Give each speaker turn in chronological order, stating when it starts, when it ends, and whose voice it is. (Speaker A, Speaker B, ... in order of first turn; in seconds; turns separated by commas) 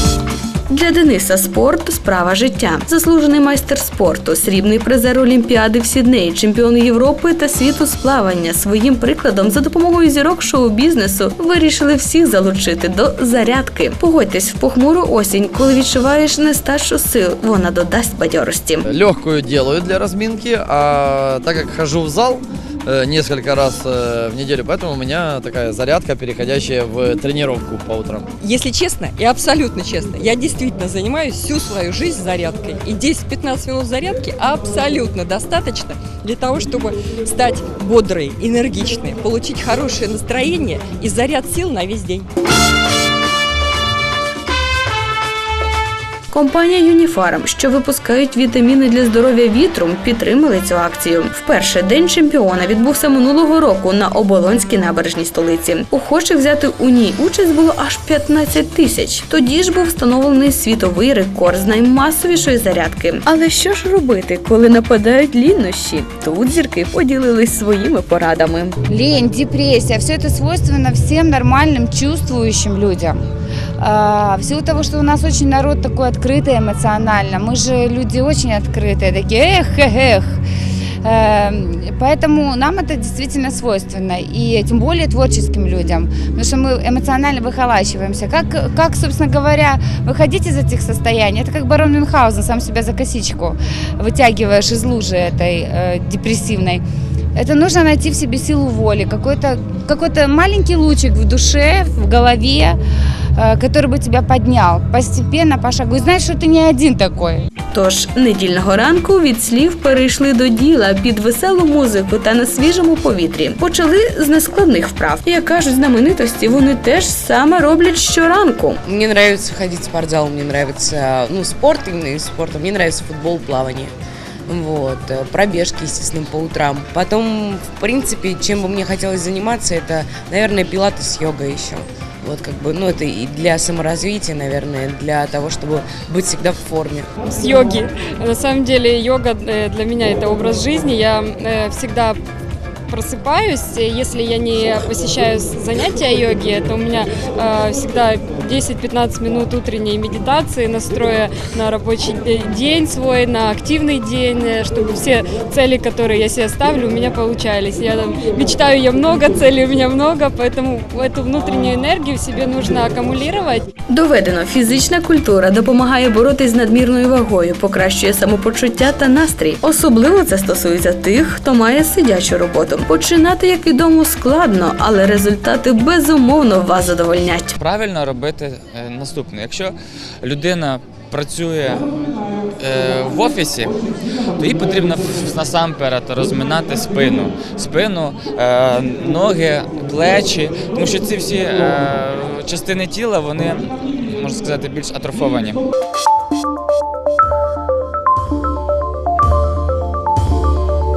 Speaker A: 0.7-18.9, Speaker B: 18.9-22.4, Speaker B: 22.9-28.2, Speaker C: 28.4-42.3, Speaker A: 46.3-68.8, Speaker D: 68.9-73.2, Speaker D: 73.8-80.4, Speaker D: 81.0-96.8, Speaker D: 97.3-102.8, Speaker D: 103.4-107.5, Speaker A: 107.7-118.8, Speaker E: 118.8-123.9, Speaker E: 124.5-137.1, Speaker F: 137.2-142.2, Speaker F: 142.9-163.6, Speaker A: 163.9-177.5, Speaker G: 177.6-181.8, Speaker G: 182.6-183.7, Speaker G: 184.4-195.6